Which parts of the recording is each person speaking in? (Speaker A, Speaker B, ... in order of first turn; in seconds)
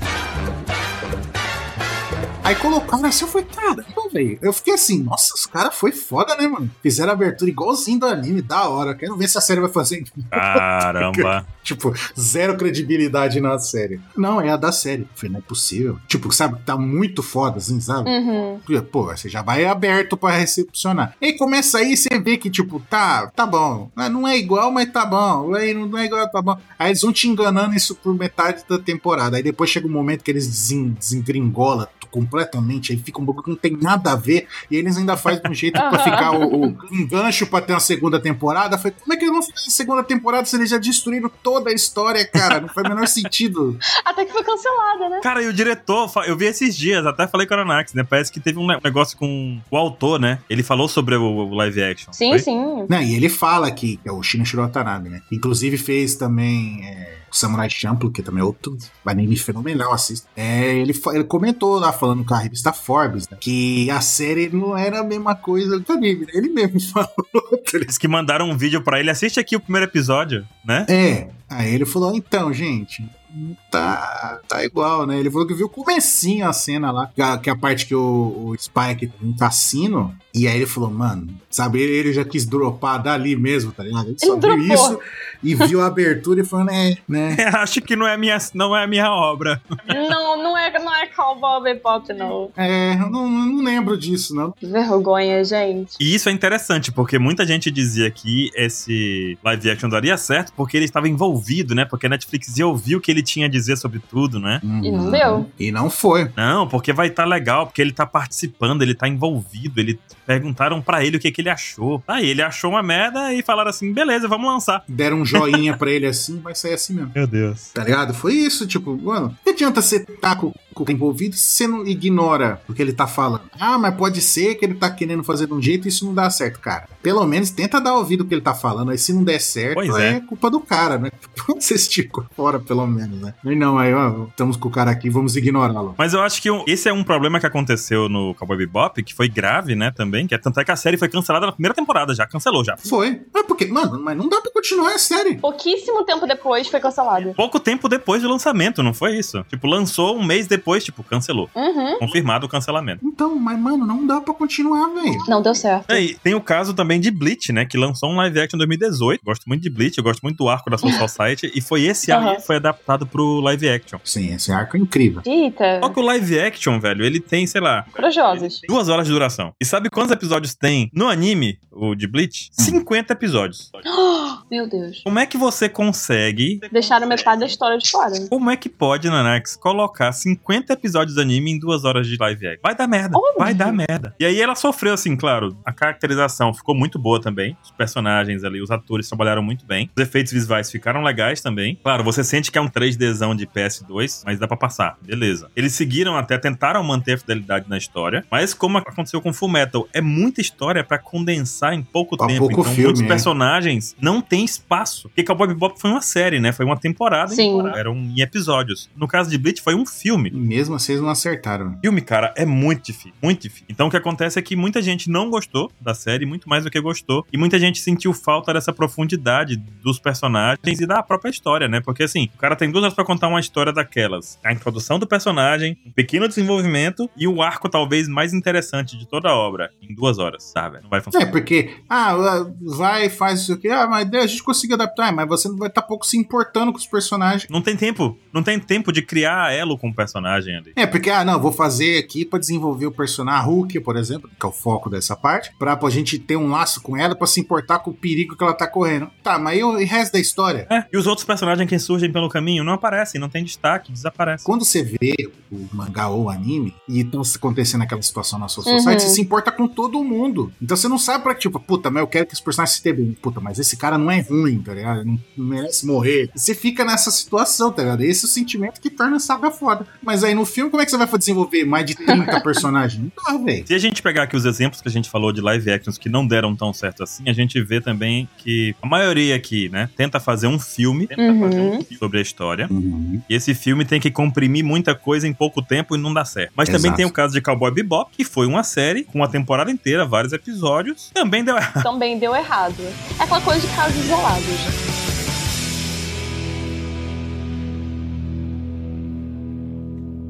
Speaker A: 2.4-43.8, 52.9-67.9, 70.9-87.4, 92.5-94.6, 104.6-106.3, 114.9-117.1, 117.7-136.0, 142.8-145.4, 153.0-155.2, 164.0-165.2, 202.2-203.3, 210.3-211.8, 231.1-237.5, 240.8-250.7, 254.4-273.7, 282.7-283.2, 286.7-287.1
Speaker B: 10.3-11.4, 45.2-52.5, 67.9-70.9, 87.3-89.6, 96.0-104.6, 106.3-115.7, 117.1-117.7, 129.7-130.2, 136.0-142.8, 147.4-153.0, 155.9-164.0, 165.8-168.0, 168.6-173.7, 175.1-176.7, 178.3-210.3, 211.8-231.2, 237.5-240.7, 250.7-254.5, 273.7-282.7, 283.3-291.9
Speaker C: 18.0-18.6, 35.8-36.7, 44.0-45.2, 52.1-52.9, 84.2-85.0, 89.9-92.5, 94.6-96.0, 104.8-105.5, 145.4-147.4, 151.6-152.1, 155.2-156.0, 162.1-162.4, 165.2-166.0, 167.9-168.6, 173.8-175.1, 176.7-178.3, 183.1-183.8, 207.3-207.8, 258.6-259.2, 272.1-272.4, 281.2-281.9, 291.8-294.7